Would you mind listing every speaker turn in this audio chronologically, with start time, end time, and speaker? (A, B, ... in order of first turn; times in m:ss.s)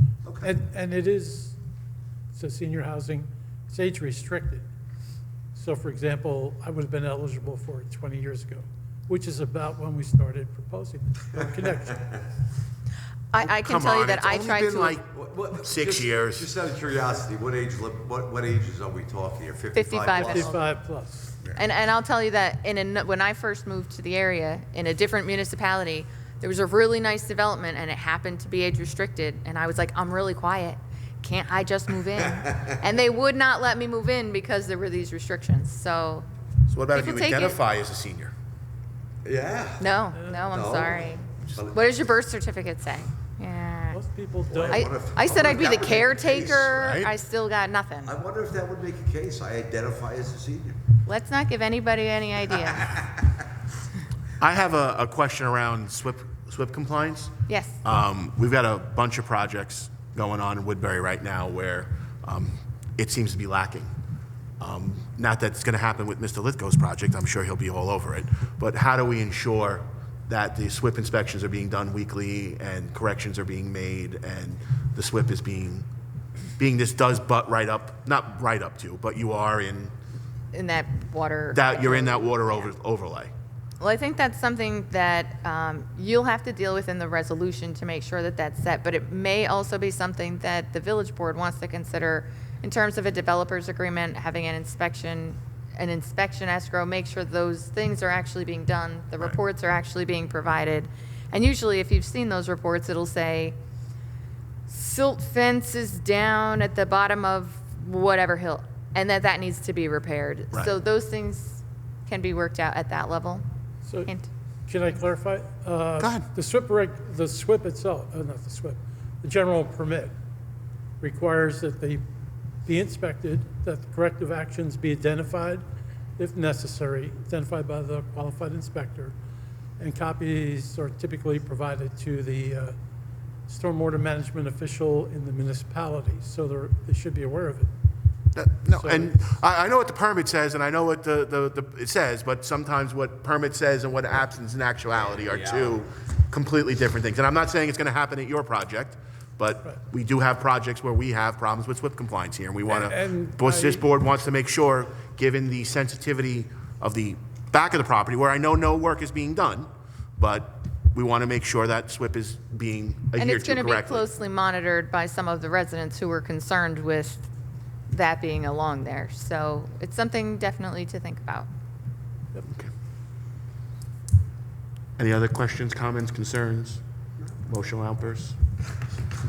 0:00.2-0:00.5 A
0:00.4-0:01.6 B
0:02.3-0:04.6 B
0:05.5-0:12.2 B
0:13.3-0:15.0 C
0:13.4-0:16.5 D
0:15.1-0:20.5 A
0:19.7-0:20.6 C
0:20.2-0:21.3 B
0:21.5-0:36.2 C
0:36.7-0:38.3 D
0:36.9-0:37.6 C
0:39.2-0:39.9 A
0:39.8-0:44.0 C
0:40.1-0:40.4 B
0:40.5-0:41.8 A
0:43.9-0:44.9 B
0:44.5-0:46.6 A
0:44.7-0:48.2 C
0:46.3-0:47.1 D
0:48.0-0:50.8 A
0:51.0-0:53.0 C
0:54.4-0:57.3 D
0:57.5-0:57.8 C
0:57.8-1:03.9 D
1:04.6-1:15.8 D
1:16.6-1:19.9 D
1:20.5-1:22.4 C
1:21.5-1:23.3 D
1:23.8-1:43.6 C
1:44.7-1:53.4 C
1:53.8-1:54.1 B
1:54.7-2:00.1 B
1:56.0-1:56.3 D
2:01.0-2:02.0 B
2:02.6-2:05.6 B
2:06.2-2:09.1 B
2:09.8-2:12.7 B
2:13.5-2:17.7 B
2:18.3-2:44.1 D
2:18.7-2:19.3 B
2:32.7-2:33.8 B
2:43.2-2:47.3 C
2:47.9-2:51.5 C
2:52.4-2:52.7 D
2:55.0-2:56.8 D
2:57.4-2:58.4 D